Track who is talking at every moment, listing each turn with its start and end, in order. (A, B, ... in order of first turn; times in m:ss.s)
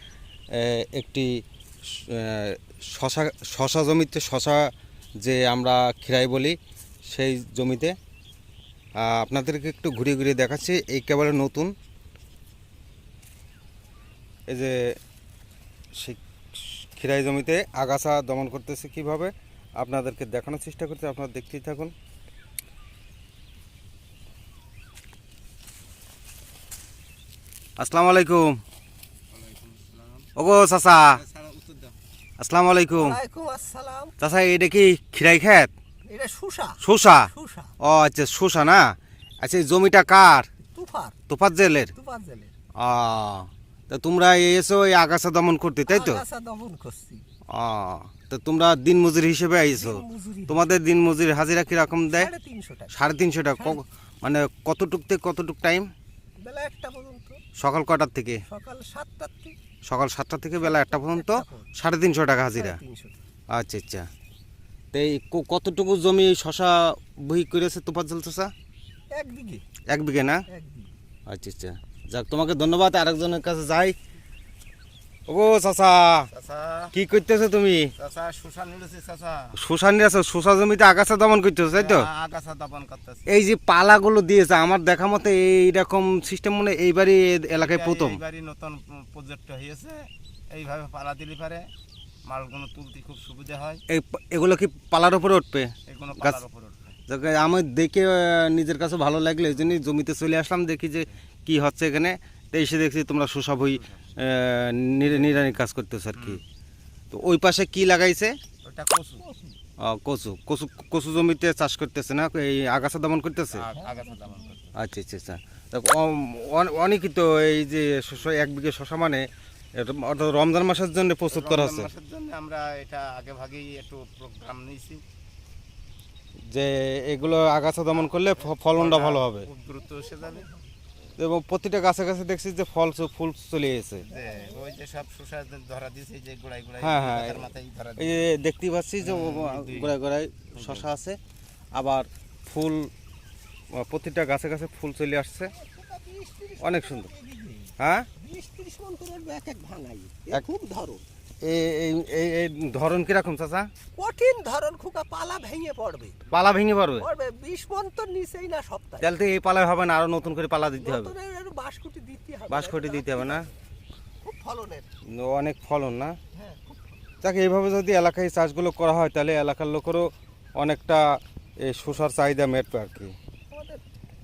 0:00.5-0:01.3 A
0:01.9-0:08.0 A
0:09.0-0:11.7 A
0:14.5-0:15.0 A
0:15.9-0:21.9 A
0:27.8-0:28.6 A
0:29.3-0:30.3 B
0:30.4-0:31.2 A
0:31.1-0:32.0 B
0:32.4-0:33.2 A
0:33.0-0:34.1 C
0:34.2-0:35.7 A
0:36.0-0:37.7 C
0:36.8-0:40.5 A
0:40.6-0:41.2 C
0:41.3-0:41.9 A
0:41.9-0:42.5 C
0:42.8-0:46.2 A
0:45.9-0:47.2 C
0:47.5-0:52.3 A
0:49.7-0:50.7 C
0:52.1-0:52.9 C
0:52.9-0:55.9 A
0:53.6-0:53.8 C
0:56.4-0:57.4 C
0:57.6-0:58.4 A
0:58.4-0:59.5 C
0:59.9-1:02.8 A
1:00.6-1:01.7 C
1:02.5-1:03.2 C
1:03.5-1:04.1 A
1:04.9-1:08.5 A
1:09.1-1:09.6 C
1:09.9-1:10.4 A
1:10.5-1:10.9 C
1:11.3-1:13.9 A
1:15.3-1:16.3 A
1:16.3-1:16.9 B
1:16.9-1:17.9 A
1:18.0-1:19.6 B
1:19.6-1:22.1 A
1:21.7-1:23.2 B
1:23.3-1:28.2 A
1:27.6-1:31.7 B
1:32.2-1:33.8 B
1:33.9-1:36.4 A
1:35.9-1:36.9 B
1:37.1-1:46.4 A
1:43.7-1:44.1 B
1:45.1-1:45.4 B
1:46.2-1:46.4 B
1:47.1-1:48.4 A
1:48.6-1:49.2 B
1:49.2-1:49.6 C
1:49.8-1:53.7 A
1:53.5-1:54.7 B
1:53.7-1:54.6 C
1:54.7-2:01.9 A
2:01.3-2:05.0 B
2:06.5-2:09.5 A
2:07.9-2:10.5 B
2:10.0-2:10.6 C
2:11.2-2:14.1 A
2:14.0-2:18.3 B
2:14.1-2:14.7 C
2:16.8-2:21.2 A
2:19.0-2:20.0 B
2:20.6-2:20.9 B
2:21.7-2:22.9 A
2:23.7-2:25.5 A
2:25.5-2:31.0 C
2:26.6-2:27.1 A
2:27.8-2:28.1 A
2:31.4-2:33.7 A
2:33.9-2:36.2 C
2:36.3-2:37.1 A
2:37.0-2:39.1 C
2:39.0-2:41.1 A
2:40.8-2:43.6 C
2:42.5-2:43.5 A
2:44.2-2:44.9 C
2:45.1-2:46.2 A
2:46.3-2:47.0 C
2:47.2-2:53.1 A
2:53.5-2:53.8 C